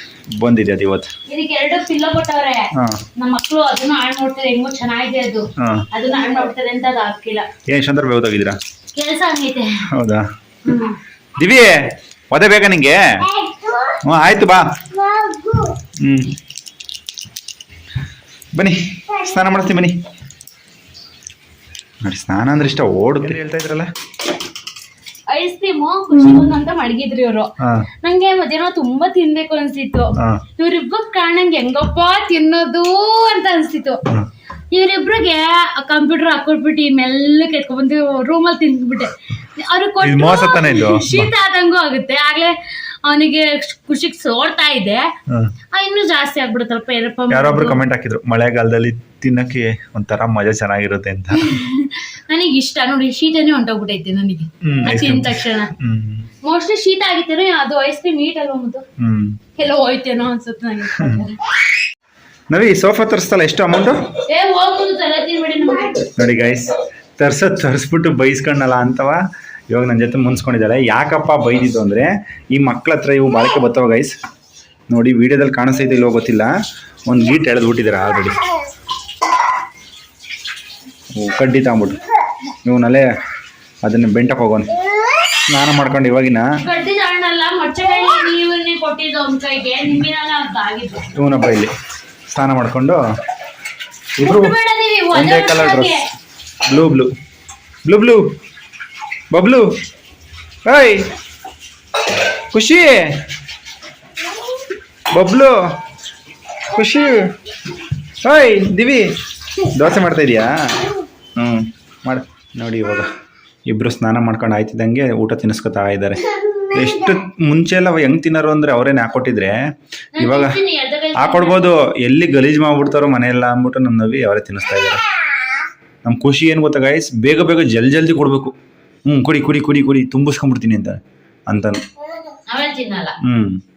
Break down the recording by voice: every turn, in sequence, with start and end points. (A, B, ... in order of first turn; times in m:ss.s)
0:00.4-0:01.1 A
0:01.3-0:07.5 B
0:02.7-0:03.0 A
0:05.6-0:05.9 A
0:07.7-0:08.6 A
0:09.0-0:09.8 B
0:09.9-0:10.2 A
0:10.6-0:11.0 B
0:11.3-0:13.3 A
0:14.0-0:14.9 A
0:16.0-0:16.3 A
0:18.5-0:20.0 A
0:22.0-0:23.9 A
0:25.3-0:34.0 B
0:27.6-0:27.9 A
0:34.7-0:45.1 B
0:40.0-0:41.3 A
0:45.7-0:47.8 B
0:47.3-0:51.5 A
0:51.3-0:55.7 B
0:54.6-0:56.3 A
0:56.4-0:58.8 B
0:59.0-0:59.4 A
0:59.6-1:01.4 B
1:02.5-1:04.1 A
1:04.2-1:06.1 B
1:06.1-1:14.1 A
1:14.9-1:16.5 A
1:17.0-1:18.4 A
1:21.1-1:22.0 A
1:22.6-1:23.1 A
1:23.8-1:24.7 A
1:25.5-1:26.5 A
1:26.6-1:31.1 B
1:31.1-1:31.7 A
1:32.3-1:33.0 A
1:34.2-1:34.6 A
1:34.2-1:36.0 B
1:35.1-1:36.0 A
1:36.6-1:37.1 A
1:37.8-1:38.3 A
1:39.3-1:39.7 A
1:40.6-1:41.1 A
1:42.5-1:43.2 A
1:45.1-1:45.6 A
1:46.7-1:47.3 A
1:48.2-1:53.1 A
1:53.7-1:59.6 A
2:00.2-2:01.7 B
2:00.2-2:00.6 A
2:01.1-2:05.0 A
2:06.0-2:08.5 A
2:09.0-2:11.8 A
2:12.5-2:13.2 B
2:13.2-2:13.6 A